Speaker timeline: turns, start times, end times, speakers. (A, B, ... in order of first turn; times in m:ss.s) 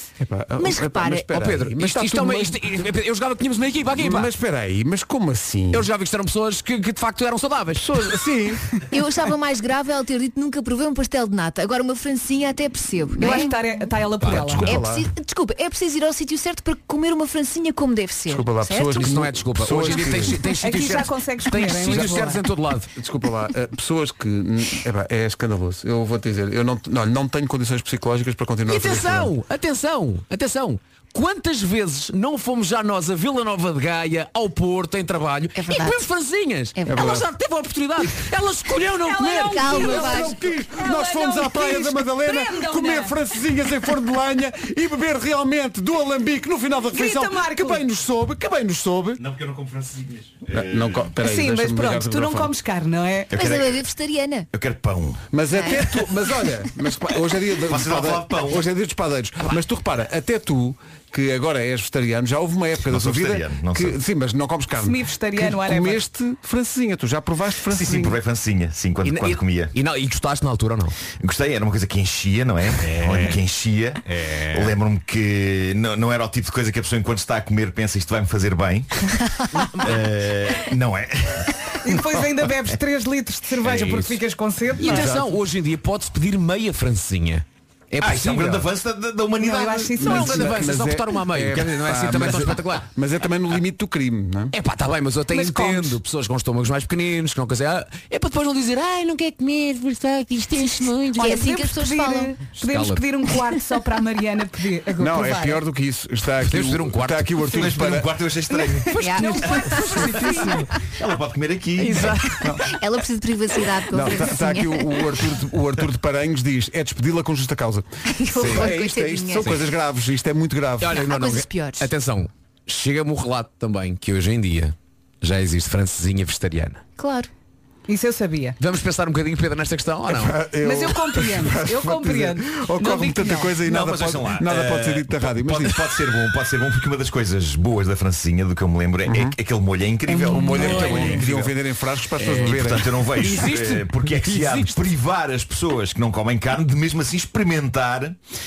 0:00.2-0:02.6 A
0:00.6-0:01.3 B
0:01.3-0:04.3 C
0:04.0-0:05.8 A
0:05.7-0:08.1 C
0:07.8-0:08.6 A
0:08.9-0:13.6 B
0:13.1-0:14.7 D
0:14.2-0:14.6 C
0:14.3-0:15.0 A
0:14.6-0:18.5 B
0:18.3-0:20.4 A
0:18.6-0:22.9 C
0:20.6-0:22.4 D
0:21.9-0:22.3 A
0:22.9-0:29.3 A
0:28.7-0:40.0 C
0:35.6-0:36.0 B
0:36.8-0:37.1 B
0:36.9-0:37.3 A
0:38.9-0:43.2 D
0:39.5-0:40.4 B
0:39.6-0:49.2 A
0:46.9-0:47.8 D
0:49.2-0:51.1 E
0:50.5-0:52.5 A
0:51.2-0:53.3 D
0:53.3-0:53.8 E
0:53.3-0:54.5 B
0:54.5-0:55.3 E
0:55.3-1:08.2 A
0:55.5-0:55.9 B
0:57.6-0:58.6 E
1:02.8-1:04.0 E
1:04.8-1:06.0 D
1:07.7-1:09.7 E
1:09.0-1:10.9 C
1:11.2-1:18.9 E
1:12.8-1:13.4 C
1:14.1-1:14.7 C
1:19.5-1:20.0 C
1:19.8-1:22.1 E
1:21.8-1:25.2 D
1:23.6-1:24.2 C
1:24.8-1:28.7 C
1:24.9-1:25.2 A
1:28.0-1:30.1 E
1:29.4-1:30.5 D
1:30.0-1:34.5 A
1:30.0-1:32.8 C
1:34.5-1:41.4 C
1:35.3-1:36.0 D
1:41.2-1:45.6 D
1:41.2-1:42.4 B
1:42.6-1:43.0 C
1:45.0-1:48.1 A
1:46.4-1:47.5 C
1:47.4-1:49.0 E
1:48.6-1:50.6 D
1:48.9-1:50.7 C
1:49.0-1:50.5 B
1:50.9-1:52.2 E
1:51.8-1:52.4 C
1:52.3-1:52.6 A
1:52.6-1:55.1 B
1:53.9-1:57.8 A
1:58.1-1:59.6 B
1:58.4-1:58.8 C
1:58.4-2:00.9 A
2:00.8-2:06.8 C
2:00.9-2:01.9 B
2:07.0-2:07.3 B
2:07.9-2:08.6 D
2:08.6-2:10.4 C
2:10.1-2:15.9 A
2:10.5-2:13.7 D
2:13.6-2:21.6 E
2:19.1-2:19.3 A
2:20.1-2:22.9 A
2:20.3-2:20.7 D
2:20.5-2:21.3 C
2:22.2-2:24.9 C
2:22.3-2:28.2 E